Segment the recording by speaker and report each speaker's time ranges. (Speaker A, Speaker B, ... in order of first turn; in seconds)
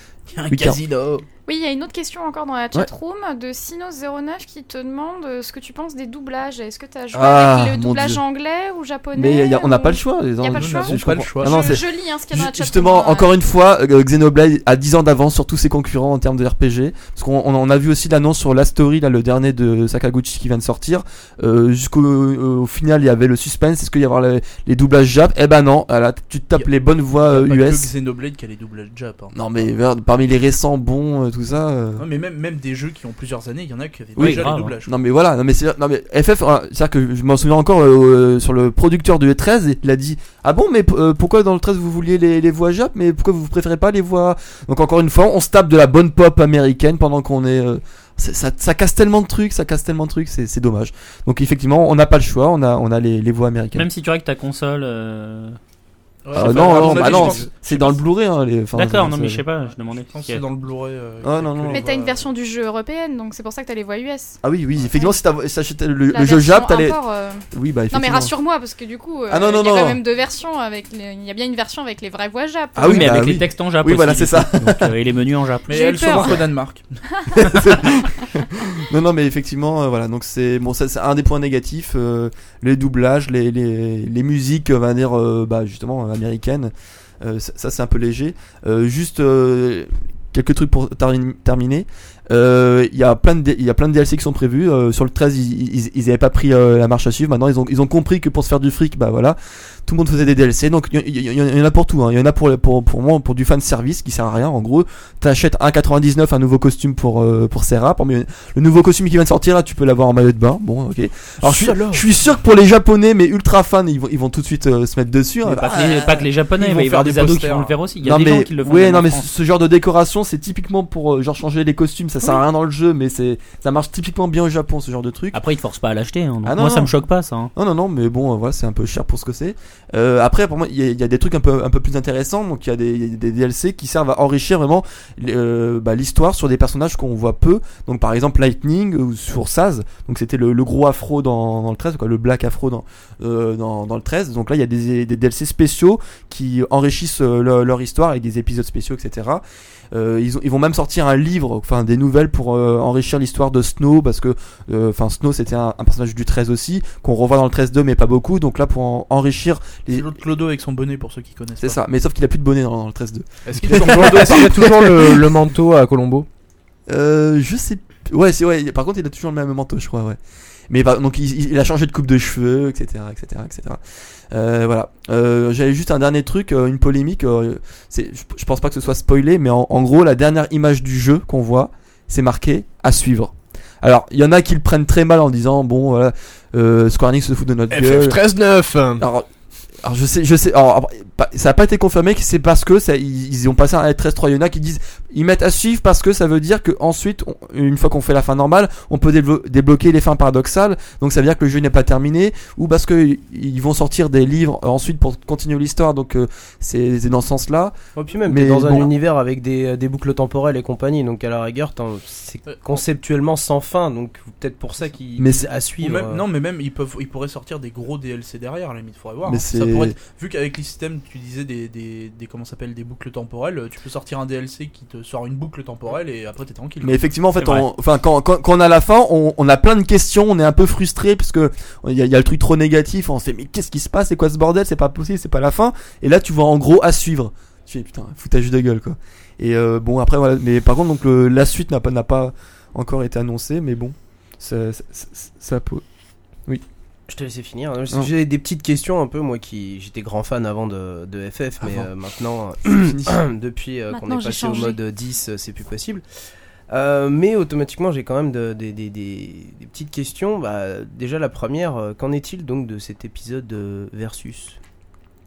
Speaker A: 0.3-1.3, 10.5-11.8, 27.2-29.4, 32.0-34.9, 56.2-58.0, 60.0-62.3, 75.7-77.0, 111.4-112.1, 115.6-117.8, 159.9-161.8, 163.6-164.6, 212.5-212.8, 215.8-227.0
Speaker B: 0.5-0.8, 7.1-8.2, 9.1-27.9, 29.3-32.0, 34.2-53.9, 56.3-59.4, 61.2-61.9, 64.4-67.0, 67.5-68.3, 69.3-70.0, 72.8-74.9, 77.3-116.0, 118.0-125.4, 126.4-126.9, 127.5-160.1, 161.6-165.1, 166.9-173.8, 174.3-188.2, 189.0-189.3, 189.8-208.9, 215.2-215.5, 219.2-219.9, 226.8-245.8, 251.6-251.9, 252.7-253.2
Speaker C: 1.4-13.3, 61.7-64.4, 64.9-65.2, 66.1-73.3, 75.7-76.4, 77.1-77.4, 253.9-254.8
Speaker D: 34.2-34.7, 53.7-55.6, 58.7-60.4, 72.8-76.3, 115.5-119.3, 125.3-127.5, 227.4-227.7
Speaker E: 163.5-166.3, 187.7-189.1
Speaker F: 207.9-216.2, 247.1-256.0, 256.7-264.6